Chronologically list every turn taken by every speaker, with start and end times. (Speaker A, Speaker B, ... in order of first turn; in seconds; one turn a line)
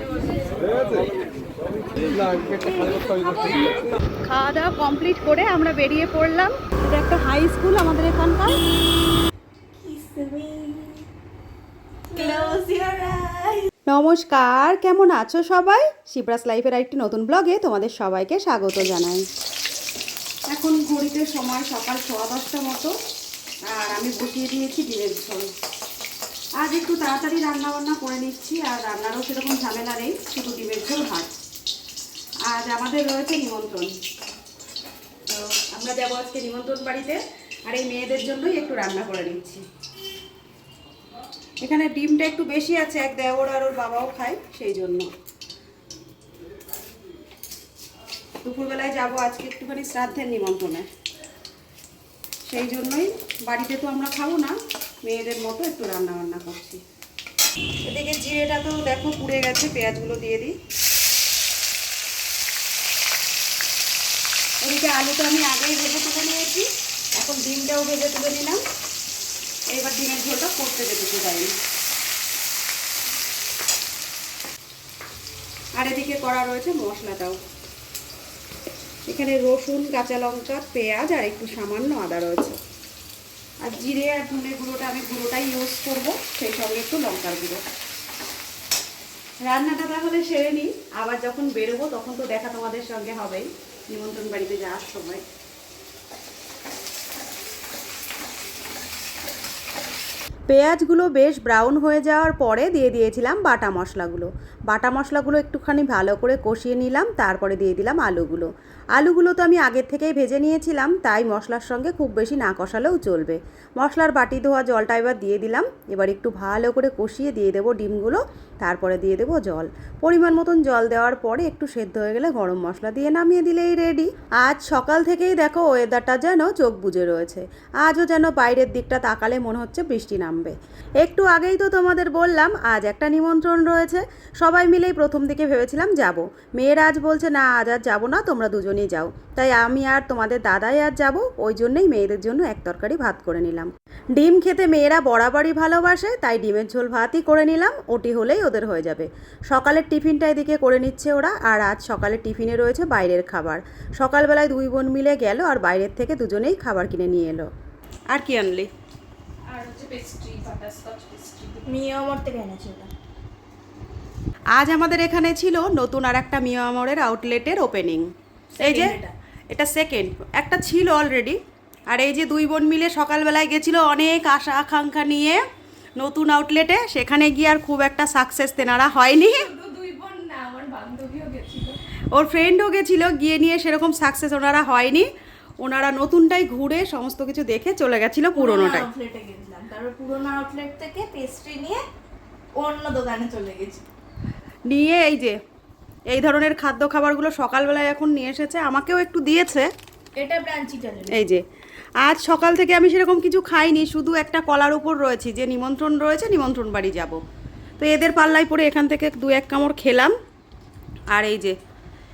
Speaker A: 2.1-3.8
Speaker B: 4.2-8.6
Speaker A: 9.8-11.1
Speaker A: 12.1-13.7
Speaker B: 13.9-19.3
Speaker B: 20.5-22.9
Speaker B: 23.7-25.5
Speaker B: 26.6-31.3
Speaker B: 32.5-33.9
Speaker B: 35.3-39.6
Speaker B: 41.6-45.1
Speaker B: 48.4-50.9
Speaker B: 52.5-54.5
Speaker B: 55.1-56.8
Speaker B: 57.9-60.5
Speaker B: 64.6-68.6
Speaker B: 69.7-71.5
Speaker B: 75.8-77.4
Speaker B: 79.1-82.6
Speaker B: 83.6-87.6
Speaker B: 89.5-95.2
Speaker B: 100.5-157.5
Speaker B: 158.1-158.7
Speaker C: 159.5-161.6
Speaker A: 161.7-162.9
Speaker B: 164.6-168.1
Speaker A: 168.6-169.1
Speaker B: 168.6-169.0
Speaker B: 169.5-171.4
Speaker B: 171.9-175.4
Speaker B: 176.0-179.5
Speaker A: 179.3-181.8
Speaker B: 182.1-185.1
Speaker B: 185.6-188.9
Speaker A: 188.3-191.8
Speaker A: 192.6-193.8
Speaker B: 194.7-195.4
Speaker B: 196.1-199.7
Speaker A: 200.2-201.2
Speaker B: 201.1-201.4
Speaker B: 202.0-207.2
Speaker B: 207.8-210.1
Speaker B: 211.1-211.6